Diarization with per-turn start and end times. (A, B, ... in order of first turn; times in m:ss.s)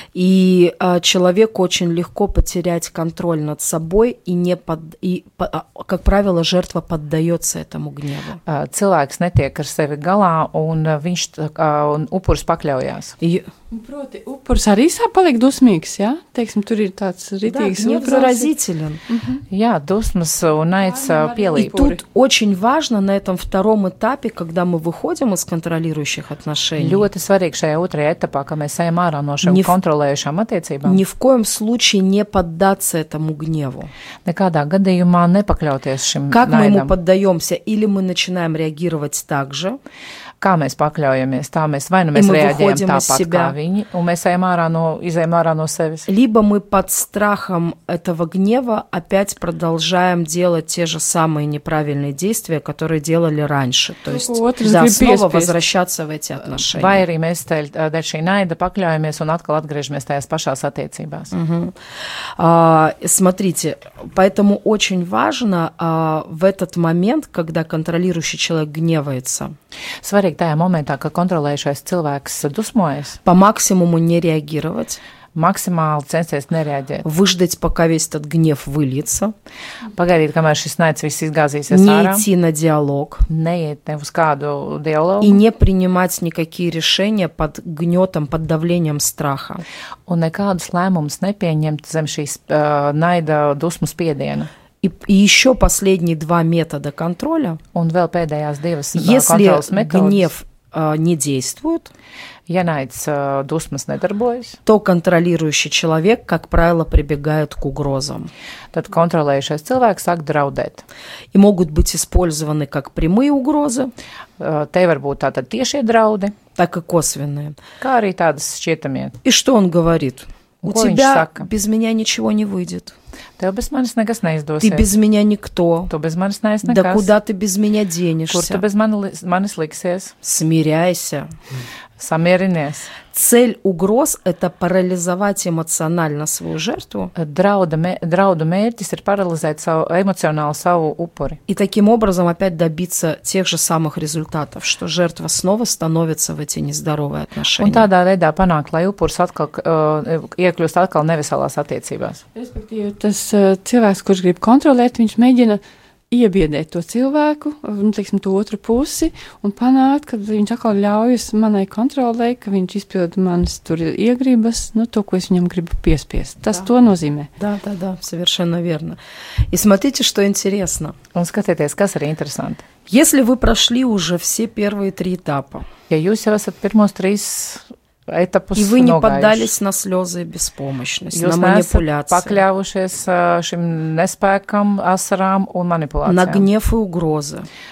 0:00.2-0:08.4 A
0:08.5-0:13.2 B
0:13.2-0:13.5 A
0:13.7-0:18.5 C
0:17.5-0:19.0 A
0:19.1-0:19.4 C
0:19.5-0:21.8 B
0:20.8-0:22.0 C
0:21.6-0:27.1 A
0:26.8-0:31.0 B
0:29.4-0:29.7 A
0:30.8-0:33.9 A
0:34.2-0:36.9 B
0:36.3-0:39.8 A
0:40.4-0:46.1 B
0:42.1-0:43.6 A
0:46.1-0:57.0 A
0:54.1-0:55.6 C
0:56.7-1:01.3 B
1:01.3-1:01.8 A
1:02.4-1:09.6 A
1:10.0-1:13.2 B
1:13.2-1:15.0 A
1:15.4-1:17.0 B
1:17.0-1:19.3 A
1:19.9-1:22.3 B
1:21.7-1:23.3 A
1:23.3-1:25.4 B
1:25.2-1:29.6 A
1:30.1-1:34.5 B
1:34.8-1:37.6 A
1:37.7-1:40.3 B
1:38.9-1:41.9 A
1:42.5-1:44.6 B
1:44.7-1:48.3 A
1:48.7-1:50.8 B
1:51.3-1:53.9 A
1:54.4-1:56.4 B
1:56.6-1:57.6 A
1:57.8-1:59.2 B
1:59.2-2:03.0 A
2:00.6-2:01.5 B
2:03.4-2:04.9 B
2:04.6-2:05.9 A
2:05.9-2:07.1 B
2:06.6-2:08.6 A
2:08.3-2:10.1 B
2:10.2-2:11.3 A
2:12.0-2:12.9 B
2:13.1-2:17.1 A
2:17.2-2:21.4 B
2:21.5-2:27.9 A
2:27.6-2:32.2 B
2:32.4-2:47.3 C
2:47.4-2:51.0 A
2:51.1-2:52.6 B
2:52.9-2:55.7 A
2:55.9-2:59.5 B
2:58.6-3:02.4 A
3:01.1-3:06.5 B
3:06.0-3:07.5 A